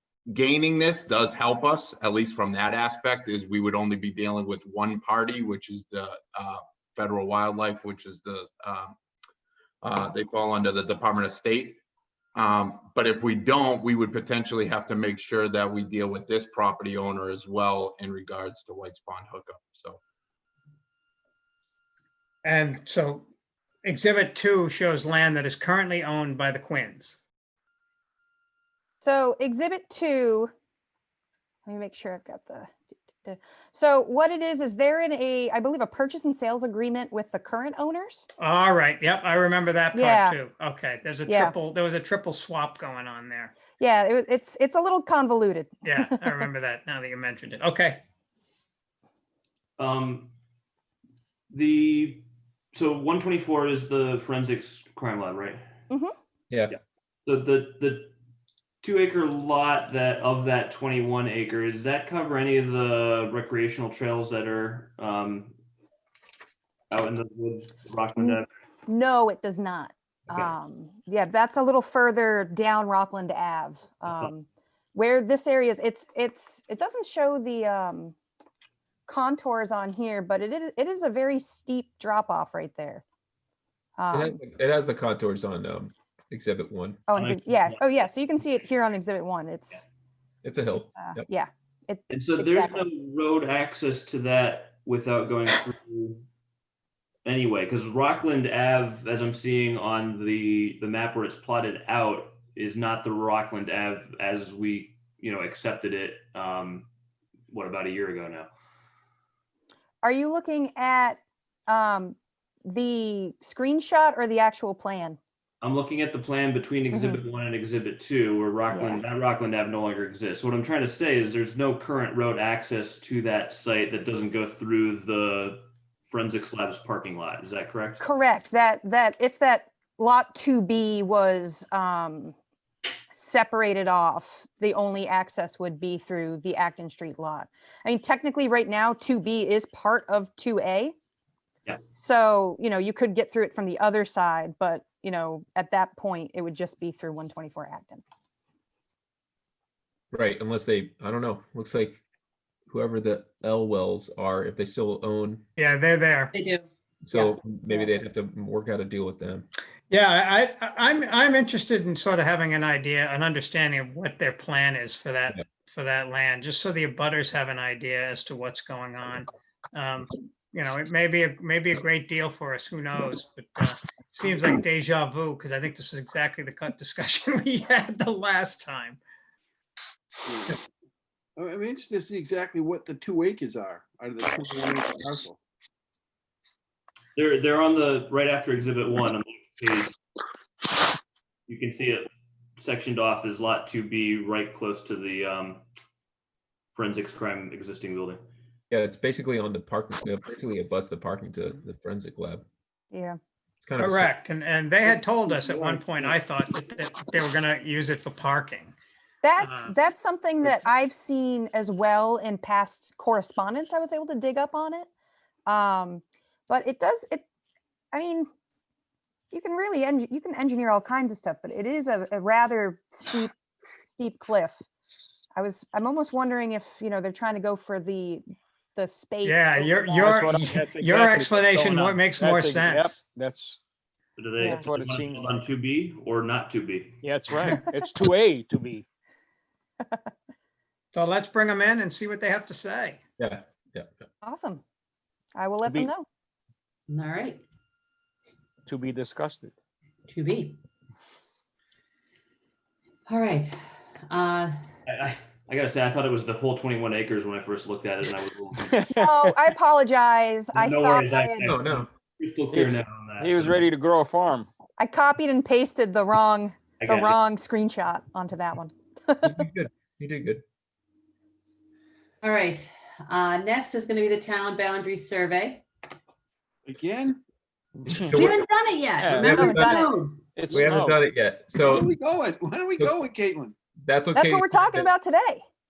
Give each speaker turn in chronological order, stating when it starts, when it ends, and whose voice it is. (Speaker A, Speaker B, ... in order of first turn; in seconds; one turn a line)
Speaker A: 0.3-9.0
Speaker A: 9.8-11.8
Speaker A: 12.3-20.0
Speaker B: 22.4-23.2
Speaker B: 23.8-27.2
Speaker C: 29.0-30.5
Speaker C: 31.6-32.7
Speaker C: 33.2-38.3
Speaker B: 38.4-43.6
Speaker C: 39.9-40.4
Speaker C: 41.3-41.6
Speaker C: 43.7-46.5
Speaker B: 45.8-48.0
Speaker D: 49.8-50.3
Speaker D: 51.5-55.6
Speaker E: 56.5-56.7
Speaker D: 56.7-58.1
Speaker D: 58.8-65.5
Speaker D: 66.9-68.5
Speaker C: 68.2-78.1
Speaker D: 74.1-74.3
Speaker C: 79.1-83.0
Speaker C: 84.0-84.4
Speaker E: 84.1-87.0
Speaker C: 87.1-89.8
Speaker D: 87.2-87.9
Speaker E: 90.4-91.2
Speaker C: 90.9-92.9
Speaker D: 92.1-96.2
Speaker D: 97.2-106.9
Speaker D: 107.5-108.5
Speaker C: 110.0-115.2
Speaker D: 115.6-128.0
Speaker C: 116.9-117.2
Speaker C: 118.7-119.0
Speaker C: 128.0-132.3
Speaker C: 133.1-140.9
Speaker C: 141.9-148.0
Speaker E: 150.1-152.0
Speaker E: 152.7-155.4
Speaker B: 155.6-156.3
Speaker F: 156.3-157.3
Speaker E: 157.0-159.5
Speaker B: 159.9-179.0
Speaker G: 180.2-180.6
Speaker G: 181.4-185.4
Speaker D: 187.2-189.9
Speaker D: 191.5-195.6
Speaker D: 196.7-198.2
Speaker E: 198.7-202.4
Speaker C: 202.9-203.2
Speaker E: 203.7-204.1
Speaker B: 203.8-208.7
Speaker G: 204.8-206.2
Speaker C: 209.2-214.9
Speaker B: 209.4-209.7
Speaker C: 215.4-217.2
Speaker C: 217.9-218.3
Speaker C: 219.3-223.3
Speaker C: 224.0-224.6
Speaker C: 225.3-228.2
Speaker C: 228.8-230.2
Speaker B: 229.2-233.0
Speaker H: 230.1-233.6
Speaker D: 234.2-237.0
Speaker C: 234.4-234.7
Speaker H: 234.4-235.4
Speaker H: 237.0-238.8
Speaker C: 237.5-237.9
Speaker B: 240.9-243.0
Speaker E: 243.2-243.9
Speaker C: 244.2-244.6
Speaker C: 245.3-246.1
Speaker H: 245.6-245.9
Speaker F: 246.9-247.4
Speaker H: 248.7-249.5
Speaker F: 250.1-250.6
Speaker F: 253.1-253.6
Speaker F: 254.1-254.6
Speaker D: 254.8-258.8
Speaker H: 258.7-259.0
Speaker C: 258.9-261.5
Speaker D: 260.5-263.6
Speaker E: 261.4-261.9
Speaker H: 262.5-264.5
Speaker C: 264.8-269.4
Speaker D: 266.8-267.2
Speaker E: 269.2-270.4
Speaker F: 272.2-275.6
Speaker G: 276.6-277.2
Speaker E: 278.0-278.5
Speaker F: 278.1-280.3
Speaker E: 279.1-279.9
Speaker C: 279.3-280.0
Speaker H: 280.3-281.0
Speaker E: 280.5-281.9
Speaker G: 280.5-280.8
Speaker G: 281.6-283.5
Speaker E: 283.8-284.9
Speaker C: 284.1-285.4